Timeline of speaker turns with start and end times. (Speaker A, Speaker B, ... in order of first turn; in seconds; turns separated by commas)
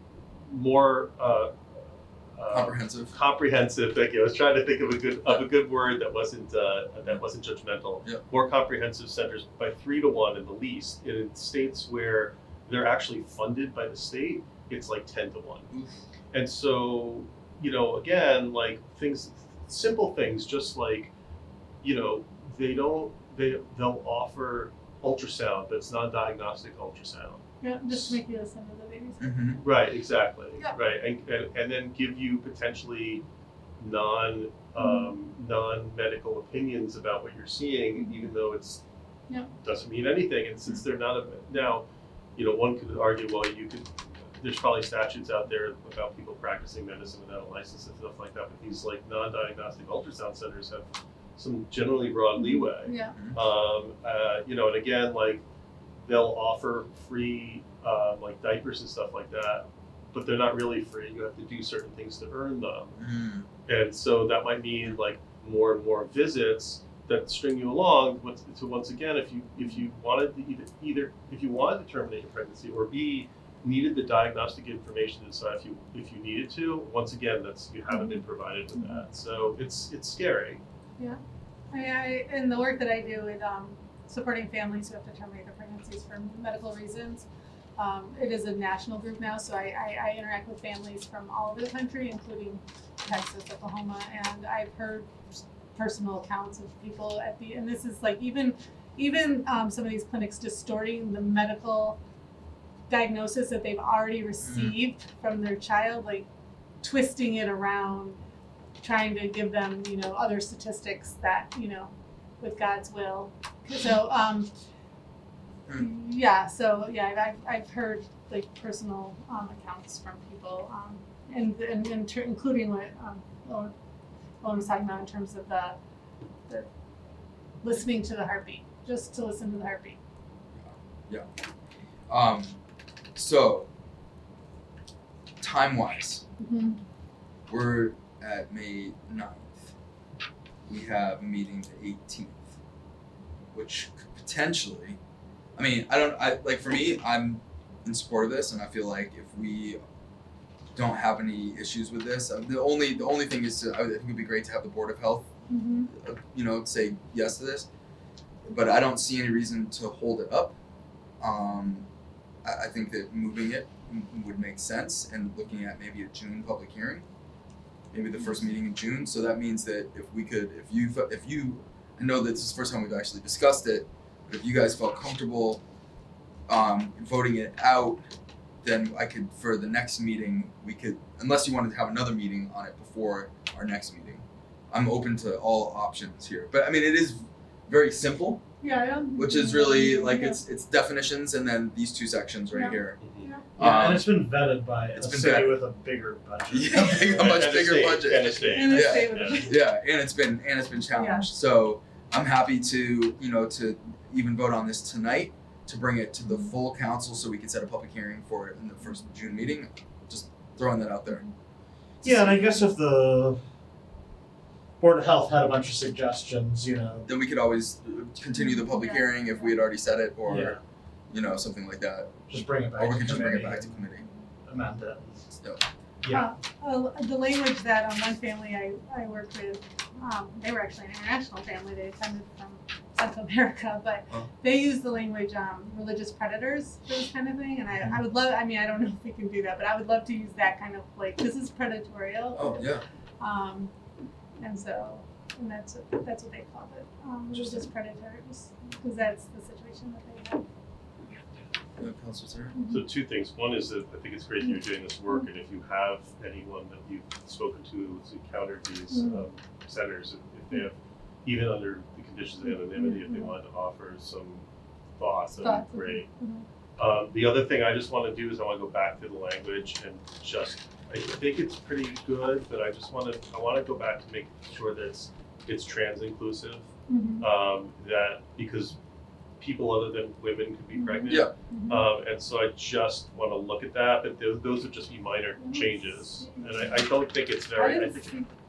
Speaker A: 0.5-1.6, Speaker A: 2.4-15.7, Speaker B: 2.5-3.1, Speaker B: 15.7-16.0, Speaker A: 16.3-21.1, Speaker A: 21.8-28.2, Speaker C: 27.6-29.5, Speaker B: 29.2-29.6, Speaker A: 29.6-33.2, Speaker A: 33.8-38.8, Speaker C: 34.8-35.1, Speaker C: 38.0-38.3, Speaker A: 39.6-41.9, Speaker A: 42.4-55.4, Speaker C: 52.4-53.1, Speaker A: 56.0-63.0, Speaker B: 63.0-63.5, Speaker A: 63.7-80.6, Speaker C: 69.6-69.8, Speaker C: 77.9-78.2, Speaker C: 78.8-79.0, Speaker C: 81.7-87.3, Speaker C: 87.8-102.0, Speaker C: 102.9-106.3, Speaker B: 104.4-104.8, Speaker C: 106.8-108.2, Speaker C: 108.8-114.5, Speaker C: 115.7-123.7, Speaker C: 124.4-125.8, Speaker C: 127.6-130.0, Speaker B: 130.6-131.3, Speaker B: 132.1-132.6, Speaker B: 133.2-133.7, Speaker B: 135.4-136.2, Speaker C: 136.4-136.8, Speaker B: 137.5-139.7, Speaker B: 140.7-142.5, Speaker B: 143.5-145.0, Speaker B: 145.6-149.8, Speaker B: 150.8-155.3, Speaker C: 155.5-155.9, Speaker B: 155.9-157.7, Speaker B: 158.5-160.5, Speaker B: 161.2-161.9, Speaker B: 162.4-167.1, Speaker B: 167.9-175.6, Speaker B: 176.5-178.0, Speaker B: 178.6-188.4, Speaker C: 188.6-190.4, Speaker B: 189.2-193.0, Speaker C: 192.5-193.5, Speaker A: 193.0-193.3, Speaker B: 193.6-194.3, Speaker D: 193.6-197.4, Speaker B: 195.0-195.6, Speaker B: 196.5-211.2, Speaker A: 197.0-199.4, Speaker C: 198.4-199.6, Speaker C: 200.9-201.3, Speaker C: 206.3-206.5, Speaker B: 212.0-212.5, Speaker D: 212.0-213.4, Speaker D: 214.8-217.1, Speaker B: 217.1-220.6, Speaker C: 218.3-219.5, Speaker D: 220.3-220.6, Speaker B: 221.1-222.2, Speaker D: 222.3-223.9, Speaker B: 222.8-224.1, Speaker D: 224.4-225.3, Speaker D: 226.0-226.3, Speaker C: 226.1-243.7, Speaker B: 242.4-242.8, Speaker C: 244.4-250.4, Speaker B: 247.3-247.7, Speaker B: 251.8-252.6, Speaker C: 252.5-252.8, Speaker A: 252.7-264.5, Speaker C: 258.9-259.2, Speaker C: 262.4-263.4, Speaker A: 265.0-266.1, Speaker C: 265.4-266.4, Speaker A: 266.8-276.7, Speaker C: 276.9-277.3, Speaker A: 277.2-278.8, Speaker A: 279.4-288.2, Speaker C: 280.7-281.9, Speaker C: 285.4-286.9, Speaker C: 287.6-288.3